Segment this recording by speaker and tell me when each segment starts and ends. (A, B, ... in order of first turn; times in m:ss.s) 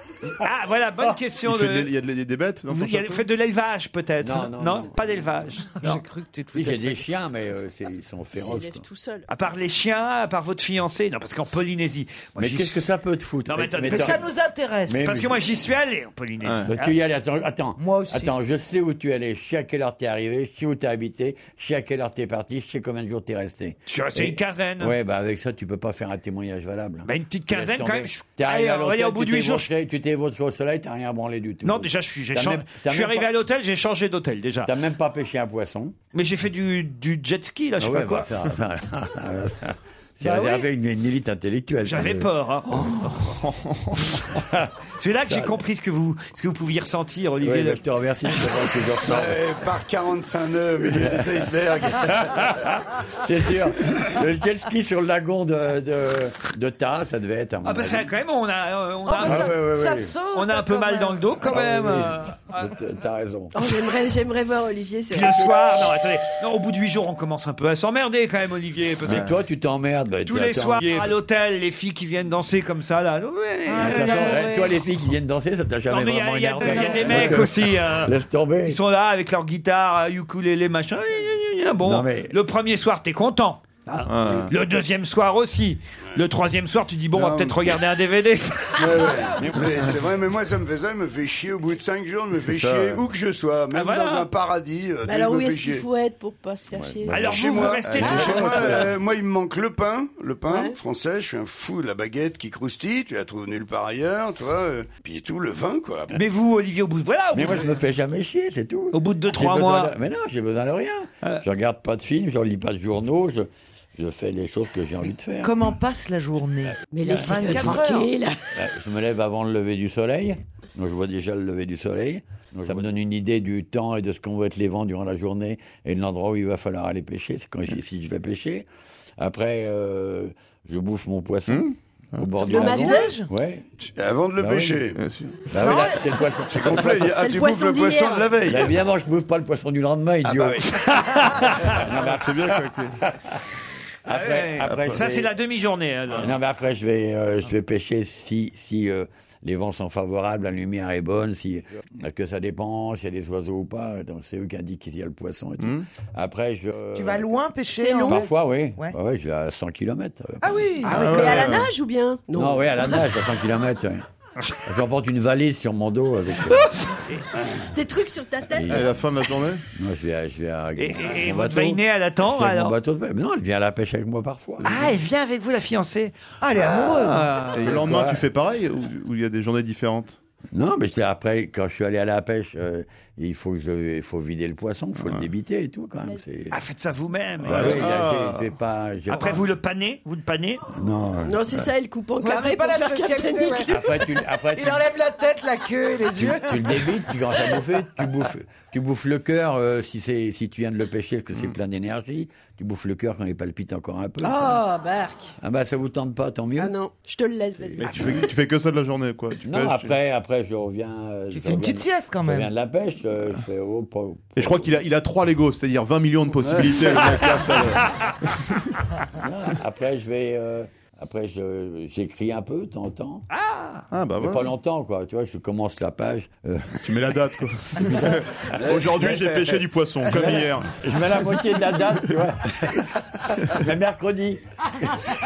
0:00.4-0:01.9 A
0:01.4-0:03.2 B
0:02.7-0:06.0 A
0:04.2-0:05.1 C
0:05.8-0:07.0 D
0:06.5-0:08.8 C
0:08.3-0:09.3 E
0:09.3-0:12.8 A
0:12.4-0:14.2 C
0:13.5-0:14.2 A
0:13.8-0:15.1 D
0:14.9-0:15.4 C
0:15.0-0:17.0 A
0:16.4-0:16.7 B
0:16.6-0:33.3 C
0:17.8-0:18.4 D
0:23.9-0:24.9 A
0:27.1-0:29.7 A
0:31.6-0:34.7 A
0:34.6-0:35.9 C
0:36.1-0:38.3 A
0:37.8-0:43.1 C
0:41.8-0:43.4 A
0:43.4-0:44.1 B
0:44.3-0:44.7 C
0:45.0-0:47.8 A
0:45.2-0:45.6 C
0:47.4-0:49.4 C
0:49.0-0:52.7 F
0:52.6-0:58.1 C
0:57.6-0:59.5 A
0:59.0-1:01.4 D
0:59.2-1:00.2 C
1:00.3-1:02.5 A
1:01.4-1:03.5 C
1:03.5-1:05.9 E
1:05.1-1:09.3 A
1:09.0-1:11.1 C
1:10.2-1:14.4 A
1:13.7-1:14.8 D
1:13.8-1:18.8 C
1:15.9-1:29.2 A
1:16.6-1:17.3 D
1:21.8-1:22.3 C
1:24.1-1:24.5 B
1:27.1-1:27.8 F
1:28.8-1:35.8 F
1:29.4-1:29.9 C
1:32.3-1:33.0 C
1:33.7-1:34.3 A
1:35.0-1:38.4 E
1:36.9-1:38.9 C
1:37.1-1:38.9 A
1:37.3-1:46.2 F
1:37.9-1:38.2 B
1:40.5-1:40.8 E
1:46.1-1:47.8 A
1:47.3-1:55.6 C
1:48.9-1:49.9 A
1:55.4-1:58.1 D
1:56.9-1:58.6 E
1:57.2-1:57.8 C
1:58.5-2:08.6 C
2:09.2-2:13.6 C
2:11.5-2:12.3 B
2:12.4-2:13.2 E
2:12.4-2:13.3 D
2:13.8-2:15.0 F
2:14.4-2:14.8 C
2:15.0-2:15.5 B
2:15.5-2:17.0 C
2:15.6-2:15.9 D
2:15.6-2:15.9 E
2:16.5-2:18.8 F
2:17.1-2:18.4 E
2:18.4-2:20.6 C
2:20.2-2:21.2 F
2:21.3-2:21.6 A
2:21.7-2:23.4 C
2:21.8-2:23.0 B
2:24.0-2:25.3 C
2:24.1-2:26.4 A
2:24.6-2:25.1 B
2:26.1-2:37.4 C
2:35.6-2:35.9 B
2:36.9-2:39.0 D
2:37.7-2:38.4 E
2:38.0-2:41.4 C
2:40.4-2:41.0 D
2:40.9-2:41.7 B
2:40.9-2:43.0 E
2:42.3-2:44.0 C
2:44.6-2:46.7 C
2:47.7-2:48.9 E
2:48.5-2:48.9 C
2:48.7-2:49.6 B
2:49.7-2:54.8 C
2:50.8-2:52.8 A
2:54.6-2:56.1 A
2:54.6-2:54.9 B
2:56.4-2:57.2 D
2:57.0-3:00.2 B
2:57.1-2:57.6 A
2:57.6-2:58.2 C
3:00.5-3:06.6 C
3:05.0-3:05.3 B
3:06.5-3:08.0 A
3:07.4-3:09.5 C
3:07.4-3:08.5 B
3:09.1-3:10.6 A
3:10.7-3:11.7 C
3:11.2-3:14.1 E
3:12.2-3:16.9 D
3:13.7-3:14.8 C
3:16.1-3:24.6 C
3:24.2-3:25.4 E
3:25.4-3:26.7 C
3:26.6-3:28.0 E
3:27.8-3:29.9 B
3:29.4-3:34.7 C
3:31.3-3:32.5 D
3:34.4-3:38.7 B
3:36.4-3:37.2 F
3:39.1-3:43.2 C
3:43.3-3:43.8 A
3:43.9-3:44.5 B
3:44.2-3:46.9 C
3:46.8-3:50.7 B
3:47.8-3:48.2 C
3:48.5-3:49.6 F
3:50.2-3:55.0 C